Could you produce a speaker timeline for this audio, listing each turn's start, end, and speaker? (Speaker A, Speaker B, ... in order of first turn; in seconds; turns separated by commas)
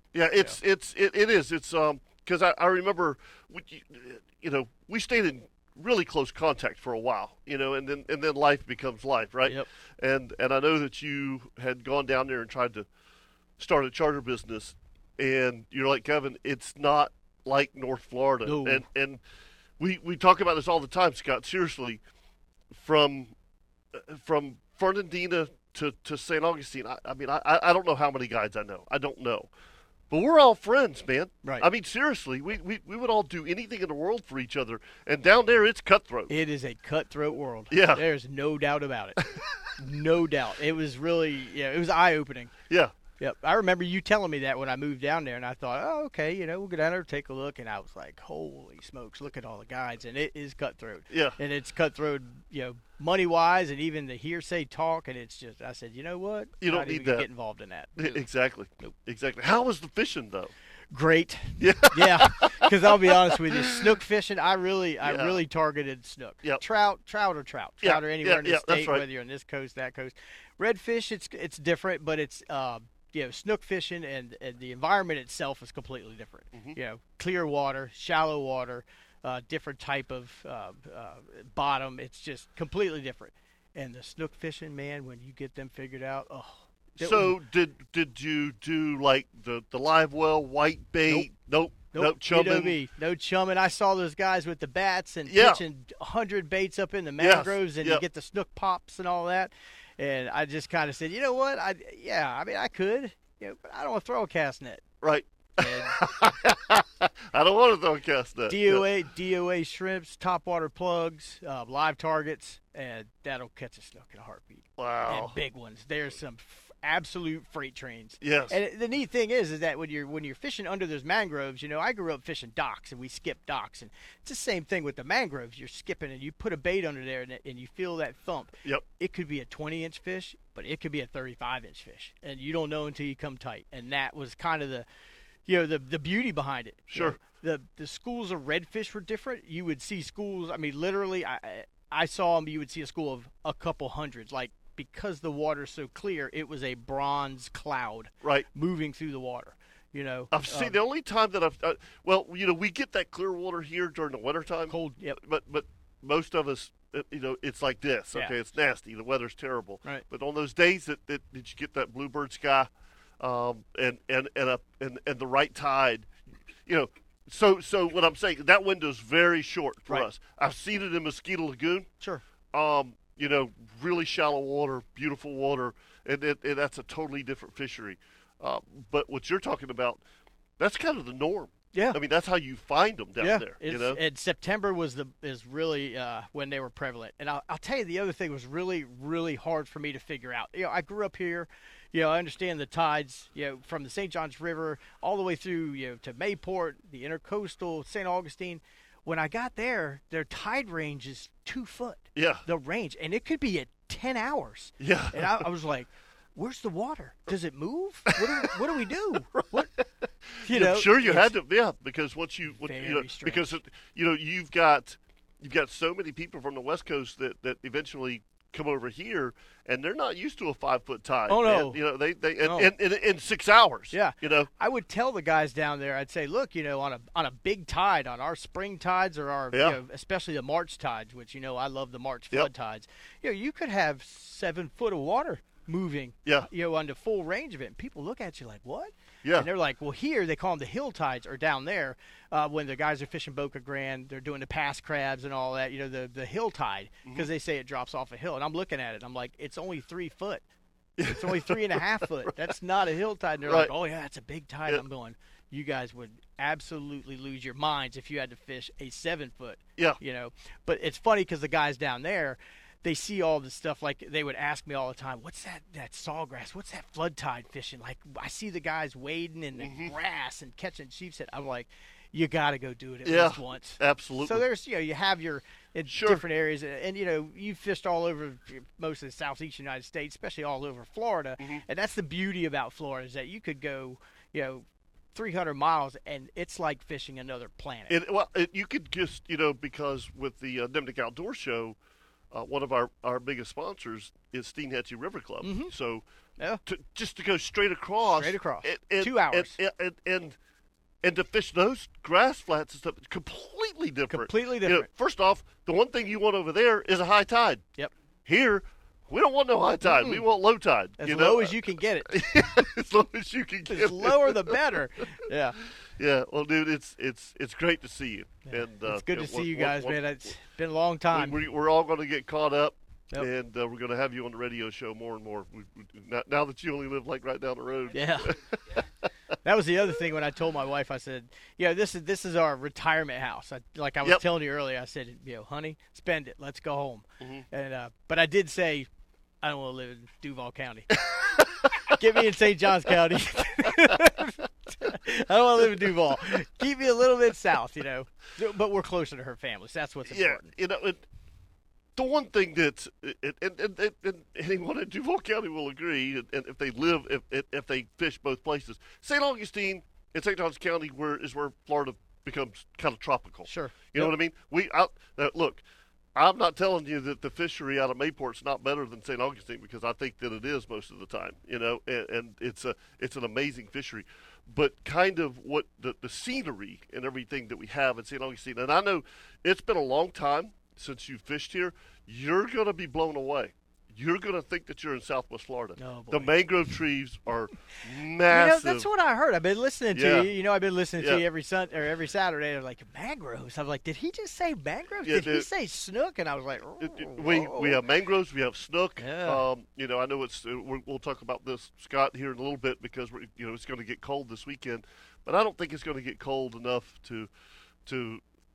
Speaker A: 0.1-12.9, Speaker A: 13.6-19.2, Speaker B: 18.4-18.9, Speaker A: 19.8-22.0, Speaker A: 22.7-23.3, Speaker A: 23.9-29.5, Speaker A: 30.1-36.3, Speaker B: 36.3-39.2, Speaker A: 37.7-38.0, Speaker A: 39.2-39.5, Speaker B: 39.8-42.5, Speaker A: 42.7-42.9, Speaker B: 43.2-58.2, Speaker A: 51.1-51.4, Speaker A: 56.6-57.3, Speaker A: 58.0-60.5, Speaker B: 60.9-87.4, Speaker A: 61.6-63.8, Speaker A: 65.0-65.4, Speaker A: 67.8-69.0, Speaker A: 87.0-92.8, Speaker B: 91.9-104.8, Speaker A: 95.3-95.6, Speaker A: 97.2-98.0, Speaker A: 105.0-108.9, Speaker B: 105.6-106.0, Speaker B: 108.5-134.9, Speaker A: 114.8-115.4, Speaker A: 118.2-118.6, Speaker B: 135.5-150.8, Speaker A: 136.9-137.2, Speaker A: 150.3-166.1, Speaker B: 154.7-155.2, Speaker A: 166.7-171.9, Speaker A: 172.5-180.0, Speaker A: 180.6-184.0, Speaker B: 181.7-182.0, Speaker B: 183.2-209.7, Speaker A: 202.2-202.4, Speaker A: 204.8-205.5, Speaker A: 208.1-208.5, Speaker A: 209.3-209.8, Speaker A: 210.4-224.5, Speaker B: 210.4-211.3, Speaker B: 212.6-213.4, Speaker B: 221.3-221.8, Speaker B: 222.4-222.7, Speaker B: 223.9-250.4, Speaker A: 229.5-229.8, Speaker A: 239.2-239.5, Speaker A: 251.0-252.3, Speaker B: 251.1-288.0, Speaker A: 253.5-253.7, Speaker A: 269.6-269.9, Speaker A: 273.1-274.4, Speaker A: 275.9-276.2, Speaker A: 287.9-291.8, Speaker A: 292.3-296.1, Speaker B: 295.4-295.7, Speaker A: 296.7-300.4, Speaker B: 298.0-299.6, Speaker A: 301.0-307.6, Speaker B: 304.1-304.9, Speaker A: 308.2-314.8, Speaker B: 309.9-310.2, Speaker B: 311.0-312.1, Speaker B: 313.7-315.6, Speaker A: 316.0-320.0, Speaker B: 318.5-321.4, Speaker A: 321.1-328.8, Speaker B: 327.9-328.4, Speaker B: 329.4-338.9, Speaker A: 337.2-337.5, Speaker B: 339.4-341.0, Speaker A: 341.1-341.9, Speaker B: 341.9-350.5, Speaker A: 350.1-351.0, Speaker A: 352.0-365.6, Speaker B: 363.5-364.1, Speaker A: 366.1-388.9, Speaker B: 385.8-386.4, Speaker B: 388.3-397.8, Speaker A: 389.9-390.3, Speaker A: 391.0-391.2, Speaker A: 395.0-395.5, Speaker A: 396.8-407.3, Speaker B: 399.0-399.4, Speaker A: 407.9-408.2